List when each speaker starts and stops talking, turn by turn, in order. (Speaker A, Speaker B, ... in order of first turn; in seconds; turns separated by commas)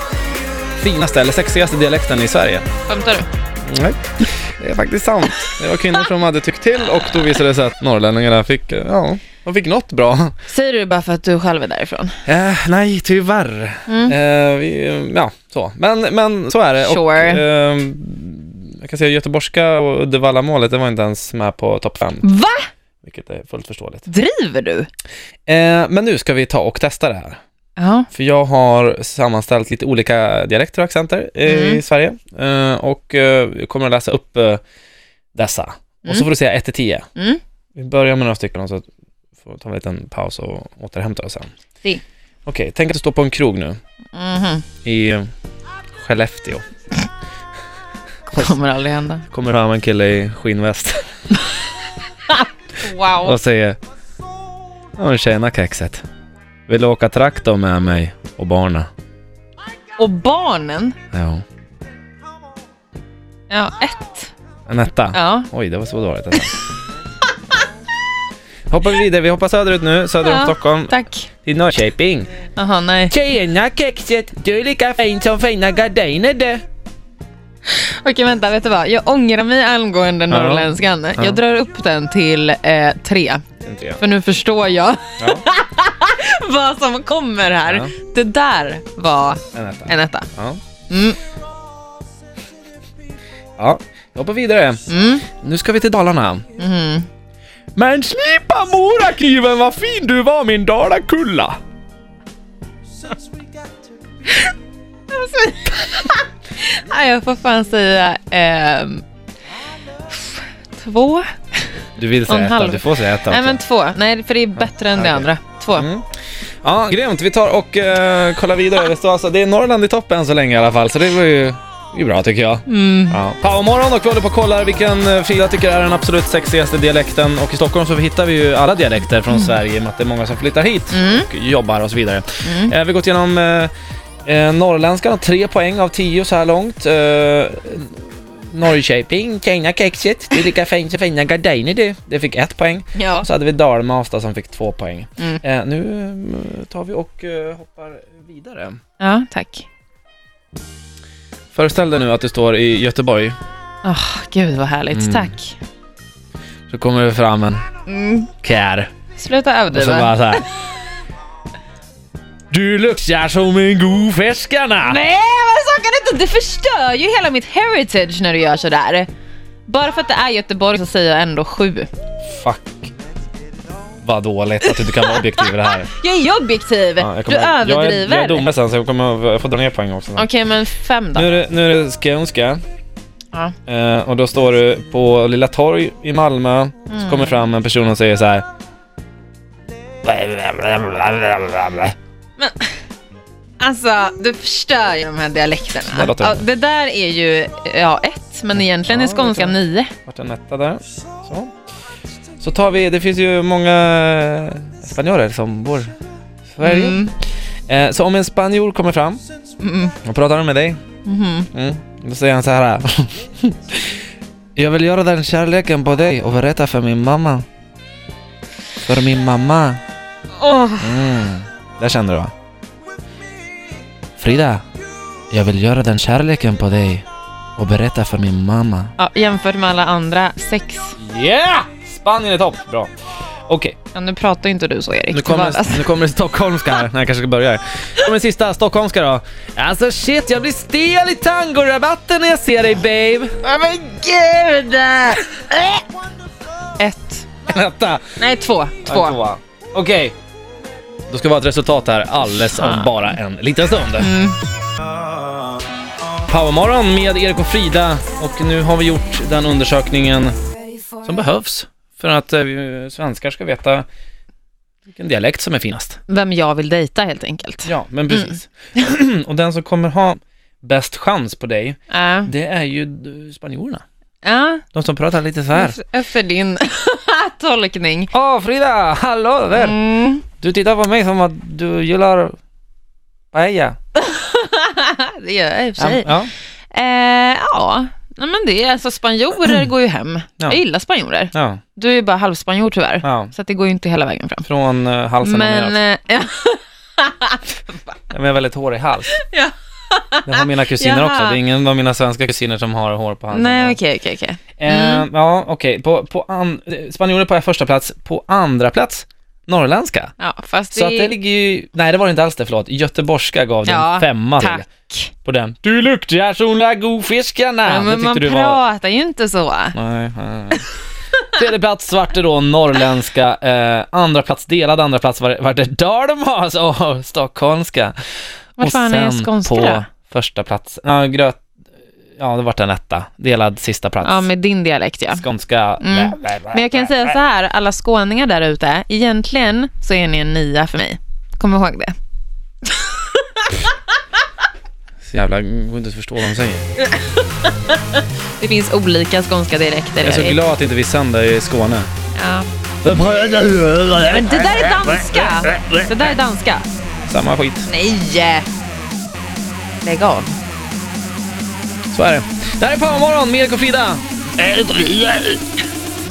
Speaker A: 0.8-2.7, Speaker B: 2.9-3.3, Speaker A: 3.6-10.4, Speaker B: 10.5-12.2, Speaker A: 12.2-22.3, Speaker B: 13.9-14.2, Speaker B: 16.8-17.4, Speaker B: 22.2-22.7, Speaker A: 23.0-24.1, Speaker B: 24.1-24.9, Speaker A: 25.5-27.4, Speaker B: 27.8-28.1, Speaker A: 28.1-34.6, Speaker B: 31.4-31.8, Speaker A: 35.3-37.1, Speaker B: 37.2-37.4, Speaker A: 37.8-38.9, Speaker A: 39.4-41.5, Speaker A: 42.5-43.8, Speaker B: 44.1-44.6, Speaker A: 44.8-45.3, Speaker A: 46.0-46.6, Speaker B: 48.3-49.2, Speaker A: 49.3-51.1, Speaker B: 52.3-53.4, Speaker A: 53.2-53.8, Speaker A: 55.0-56.0, Speaker A: 56.7-58.9, Speaker B: 60.0-61.0, Speaker A: 61.1-61.4, Speaker B: 63.5-64.3, Speaker A: 64.7-66.6, Speaker B: 65.1-65.5, Speaker A: 68.7-72.3, Speaker B: 70.2-71.3, Speaker B: 72.6-73.1, Speaker A: 73.1-76.6, Speaker B: 77.7-83.4, Speaker A: 80.3-81.4, Speaker A: 83.6-84.0, Speaker B: 84.0-90.3, Speaker A: 87.7-87.9, Speaker A: 89.5-90.6, Speaker B: 90.9-91.2, Speaker A: 93.6-96.5, Speaker B: 94.9-95.3, Speaker B: 96.6-97.1, Speaker A: 97.8-101.6, Speaker B: 105.1-109.0, Speaker B: 110.1-111.4, Speaker A: 112.0-113.6, Speaker B: 112.3-115.9, Speaker A: 114.6-116.1, Speaker A: 116.6-133.7, Speaker B: 122.7-123.2, Speaker B: 130.9-131.3, Speaker B: 132.4-132.7, Speaker A: 134.2-148.8, Speaker B: 142.9-143.3, Speaker B: 149.0-149.7, Speaker A: 151.5-153.4, Speaker B: 153.8-155.6, Speaker A: 154.9-155.3, Speaker A: 156.7-157.6, Speaker B: 157.9-158.3, Speaker A: 158.4-158.9, Speaker B: 159.2-160.5, Speaker A: 159.7-160.5, Speaker A: 162.5-165.0, Speaker B: 164.8-169.1, Speaker B: 169.7-171.9, Speaker A: 172.3-172.9, Speaker A: 174.0-175.9, Speaker B: 174.7-178.5, Speaker A: 177.0-180.3, Speaker B: 180.2-181.3, Speaker A: 181.1-182.6, Speaker A: 183.7-188.4, Speaker B: 186.9-187.3, Speaker A: 190.0-191.9, Speaker B: 192.4-192.7, Speaker B: 193.6-199.9, Speaker A: 195.8-196.4, Speaker A: 198.5-201.5, Speaker A: 202.4-205.9, Speaker A: 206.5-207.0, Speaker B: 206.6-207.1, Speaker A: 207.7-209.2, Speaker B: 209.6-209.9, Speaker A: 210.0-210.8, Speaker B: 211.1-211.5, Speaker A: 211.5-213.9, Speaker A: 214.6-217.4, Speaker A: 218.8-219.8, Speaker B: 220.4-221.0, Speaker A: 220.8-222.3, Speaker A: 224.2-224.6, Speaker A: 225.3-227.0, Speaker A: 227.6-228.9, Speaker B: 229.0-231.0, Speaker A: 231.0-232.9, Speaker A: 233.5-233.8, Speaker B: 233.9-235.8, Speaker A: 235.1-243.4, Speaker B: 243.4-245.6, Speaker B: 246.8-247.3, Speaker A: 247.5-248.1, Speaker B: 248.2-249.2, Speaker A: 248.8-250.1, Speaker A: 251.1-254.1, Speaker B: 252.5-253.1, Speaker B: 254.0-254.4, Speaker A: 256.3-260.4, Speaker A: 261.0-263.9, Speaker A: 264.9-266.0, Speaker B: 266.1-268.4, Speaker A: 267.6-273.8, Speaker B: 271.9-272.3, Speaker B: 274.2-274.6, Speaker A: 274.7-275.8, Speaker B: 275.5-278.1, Speaker A: 278.1-279.8, Speaker B: 279.5-280.2, Speaker A: 280.4-282.4, Speaker A: 283.3-283.8, Speaker B: 283.9-286.2, Speaker A: 285.8-286.3, Speaker B: 286.7-294.4, Speaker A: 291.3-291.6, Speaker A: 293.0-293.3, Speaker A: 294.4-295.8, Speaker B: 295.2-297.4, Speaker A: 298.1-299.2, Speaker B: 299.1-301.4, Speaker A: 300.2-303.8, Speaker B: 303.3-305.1, Speaker A: 304.6-310.1, Speaker B: 310.2-311.1, Speaker A: 310.8-314.6, Speaker B: 313.6-315.1, Speaker A: 315.2-318.6, Speaker B: 317.6-319.8, Speaker A: 319.7-320.6, Speaker A: 321.3-327.9, Speaker B: 328.6-329.9, Speaker A: 328.6-331.4, Speaker A: 332.2-334.3, Speaker B: 334.0-335.2, Speaker A: 335.1-337.1, Speaker B: 335.8-341.9, Speaker B: 342.6-343.8, Speaker A: 345.0-346.6, Speaker B: 346.8-350.4, Speaker A: 350.0-351.9, Speaker B: 352.1-352.5, Speaker A: 352.8-354.5, Speaker B: 354.0-356.7, Speaker A: 357.1-357.7, Speaker B: 357.7-358.5, Speaker B: 359.8-360.4, Speaker A: 361.9-365.3